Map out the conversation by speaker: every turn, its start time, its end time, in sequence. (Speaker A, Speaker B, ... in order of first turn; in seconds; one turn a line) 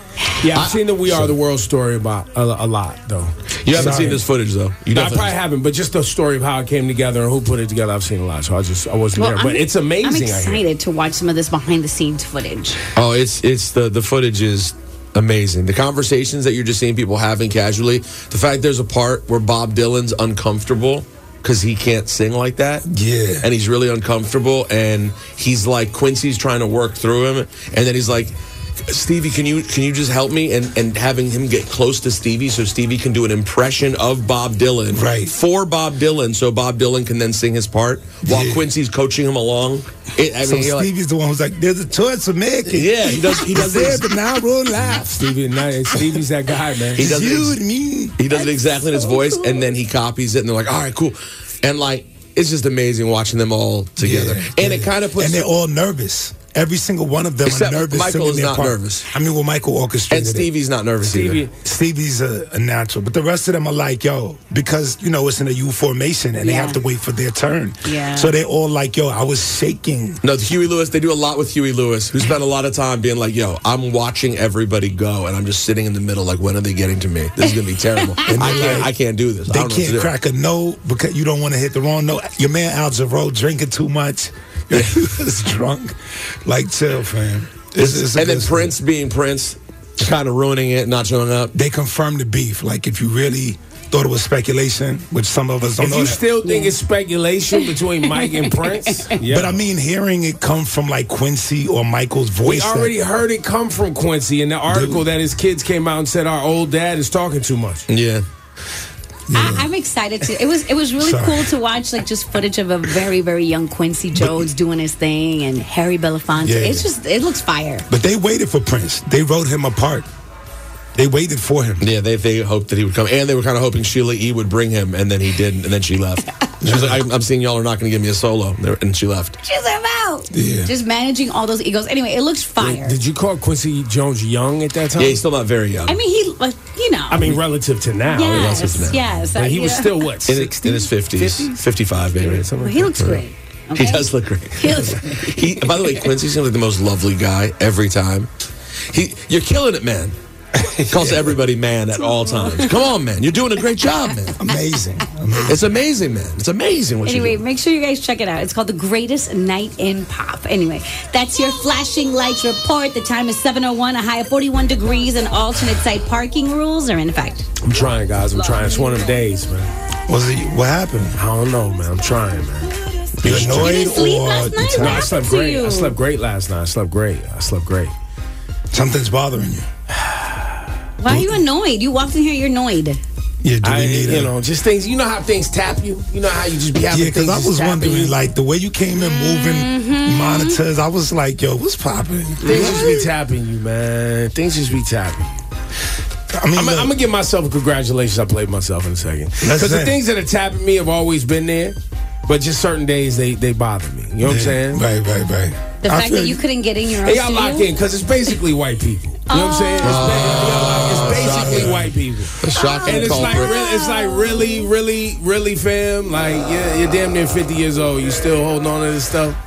Speaker A: 0.4-4.2
Speaker B: 0.5-0.8
Speaker B: 3.6-5.3
Speaker C: 3.7-4.2
Speaker A: 4.9-10.6
Speaker D: 9.2-12.8
Speaker B: 12.9-22.9
Speaker C: 22.9-23.5
Speaker B: 23.4-40.9
Speaker C: 34.9-35.3
Speaker C: 38.2-38.7
Speaker C: 40.4-45.1
Speaker B: 42.7-44.1
Speaker A: 44.8-47.1
Speaker B: 47.0-47.6
Speaker C: 47.0-48.2
Speaker B: 48.2-55.5
Speaker D: 48.4-49.6
Speaker C: 54.0-60.5
Speaker B: 57.4-59.1
Speaker B: 60.1-61.5
Speaker A: 61.0-61.5
Speaker C: 61.6-70.2
Speaker D: 66.4-66.8
Speaker D: 67.8-68.3
Speaker B: 70.2-80.1
Speaker D: 78.0-78.5
Speaker C: 78.3-78.9
Speaker C: 79.5-88.8
Speaker B: 87.8-91.5
Speaker C: 91.5-96.2
Speaker A: 95.8-99.6
Speaker D: 96.4-96.7
Speaker D: 97.6-99.2
Speaker C: 99.2-102.9
Speaker A: 102.4-107.9
Speaker C: 104.7-105.0
Speaker B: 107.9-108.2
Speaker C: 109.3-109.7
Speaker D: 109.3-117.9
Speaker C: 111.0-111.5
Speaker C: 114.2-114.5
Speaker C: 116.4-116.9
Speaker C: 117.9-120.1
Speaker C: 121.0-121.8
Speaker B: 121.8-129.4
Speaker C: 126.6-127.0
Speaker D: 129.4-133.0
Speaker C: 130.3-130.7
Speaker A: 132.6-135.2
Speaker B: 135.0-136.0
Speaker D: 135.9-137.3
Speaker A: 137.1-141.6
Speaker D: 138.1-140.0
Speaker B: 138.3-139.0
Speaker B: 140.3-143.2
Speaker A: 142.2-143.2
Speaker D: 142.6-146.0
Speaker B: 143.7-148.3
Speaker B: 148.9-150.2
Speaker C: 150.6-151.4
Speaker B: 150.9-154.4
Speaker D: 152.2-152.7
Speaker C: 154.4-155.6
Speaker B: 155.4-157.4
Speaker D: 157.0-167.5
Speaker A: 167.6-169.7
Speaker C: 170.1-171.2
Speaker A: 171.2-173.7
Speaker C: 173.2-175.1
Speaker D: 173.2-175.9
Speaker A: 174.8-177.9
Speaker C: 178.7-179.7
Speaker A: 179.9-180.6
Speaker D: 181.0-183.0
Speaker C: 181.1-181.4
Speaker C: 183.4-184.3
Speaker A: 183.6-188.2
Speaker C: 186.9-193.1
Speaker D: 189.0-190.6
Speaker D: 192.4-192.8
Speaker A: 192.4-195.3
Speaker C: 196.3-196.9
Speaker A: 196.5-204.8
Speaker C: 199.4-200.0
Speaker C: 204.2-206.4
Speaker D: 205.8-207.7
Speaker A: 207.0-219.4
Speaker D: 209.3-210.1
Speaker B: 209.8-211.8
Speaker C: 210.5-211.9
Speaker B: 212.4-213.6
Speaker D: 212.6-214.7